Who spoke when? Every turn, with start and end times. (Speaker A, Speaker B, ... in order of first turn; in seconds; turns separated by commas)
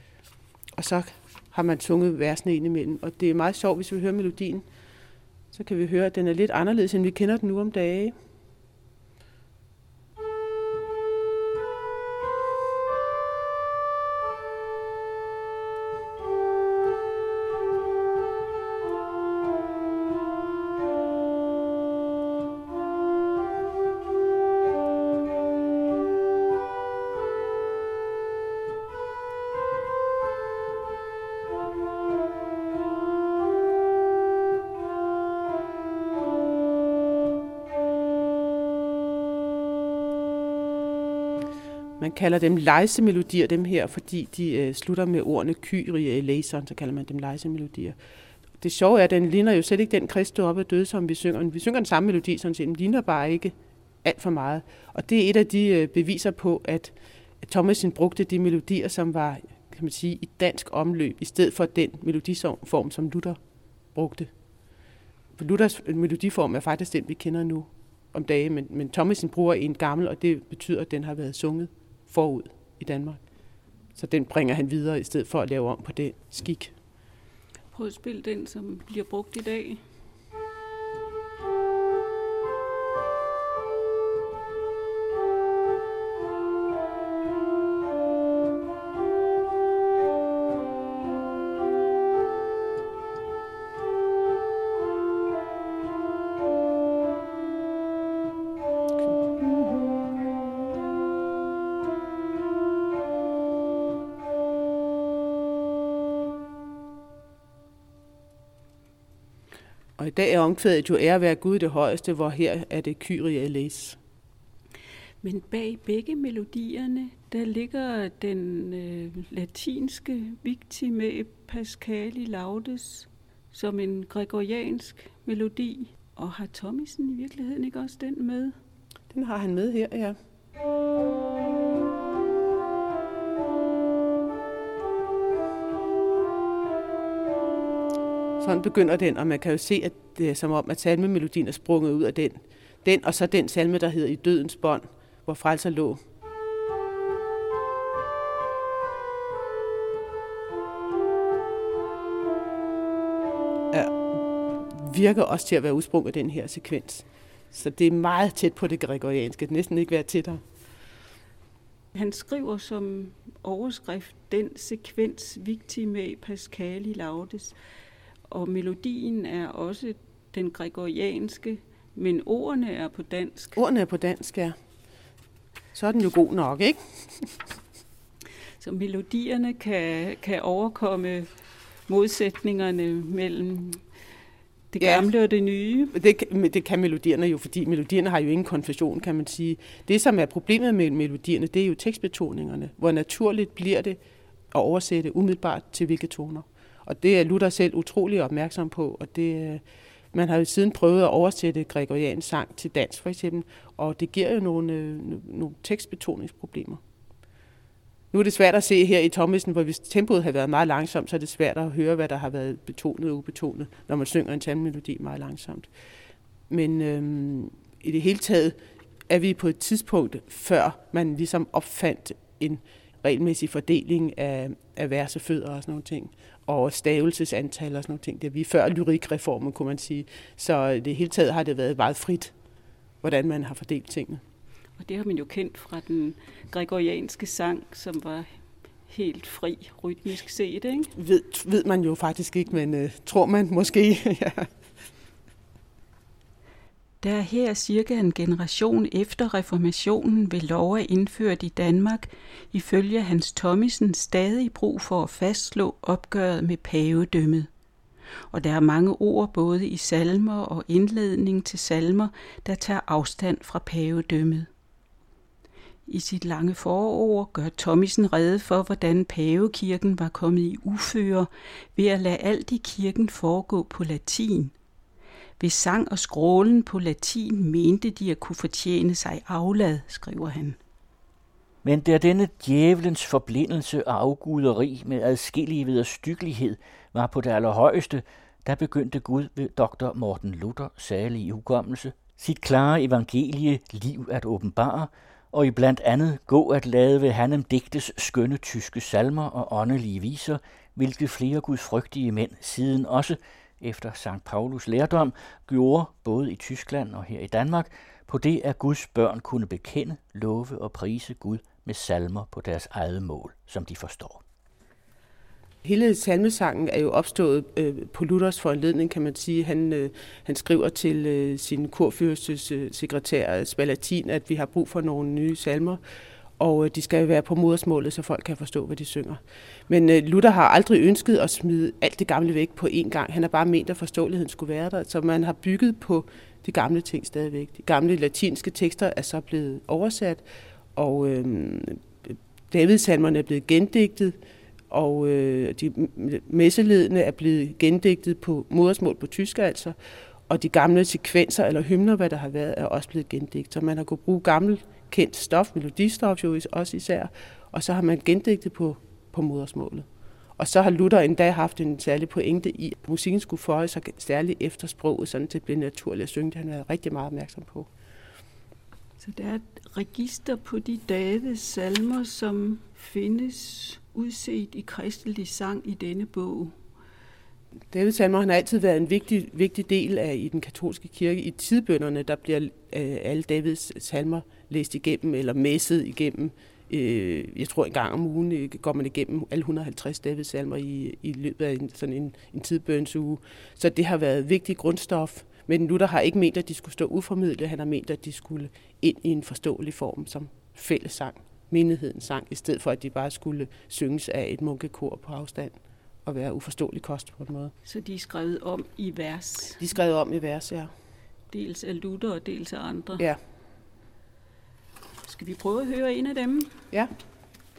Speaker A: 0.7-4.7, Speaker A: 5.5-8.1, Speaker A: 42.0-48.0, Speaker A: 48.6-63.4, Speaker A: 63.9-64.3, Speaker A: 65.4-73.2, Speaker A: 73.9-76.7, Speaker B: 77.7-79.8, Speaker A: 110.0-114.0, Speaker B: 115.2-128.5, Speaker A: 129.1-130.2, Speaker A: 138.4-146.0, Speaker A: 153.7-160.4, Speaker B: 161.9-167.6, Speaker B: 168.3-173.6, Speaker A: 173.6-174.6, Speaker A: 175.7-177.3, Speaker B: 178.6-181.3, Speaker B: 181.9-183.8, Speaker B: 184.7-185.9, Speaker A: 184.8-185.1, Speaker A: 185.9-194.0, Speaker A: 194.5-206.8, Speaker A: 208.1-215.7, Speaker A: 216.5-232.3, Speaker A: 233.0-234.2, Speaker B: 234.8-238.3, Speaker B: 238.9-240.9, Speaker A: 240.9-244.5, Speaker B: 247.0-257.5, Speaker B: 258.3-264.5, Speaker B: 265.9-274.5, Speaker B: 275.4-280.6, Speaker C: 281.6-314.2, Speaker A: 315.6-325.8, Speaker A: 326.4-340.2, Speaker A: 340.8-344.2, Speaker A: 344.7-349.7, Speaker A: 350.3-359.9, Speaker A: 360.4-367.7, Speaker B: 369.0-376.5, Speaker A: 377.7-407.5, Speaker B: 407.6-409.6, Speaker A: 409.6-410.7, Speaker B: 411.3-413.1, Speaker B: 415.0-416.5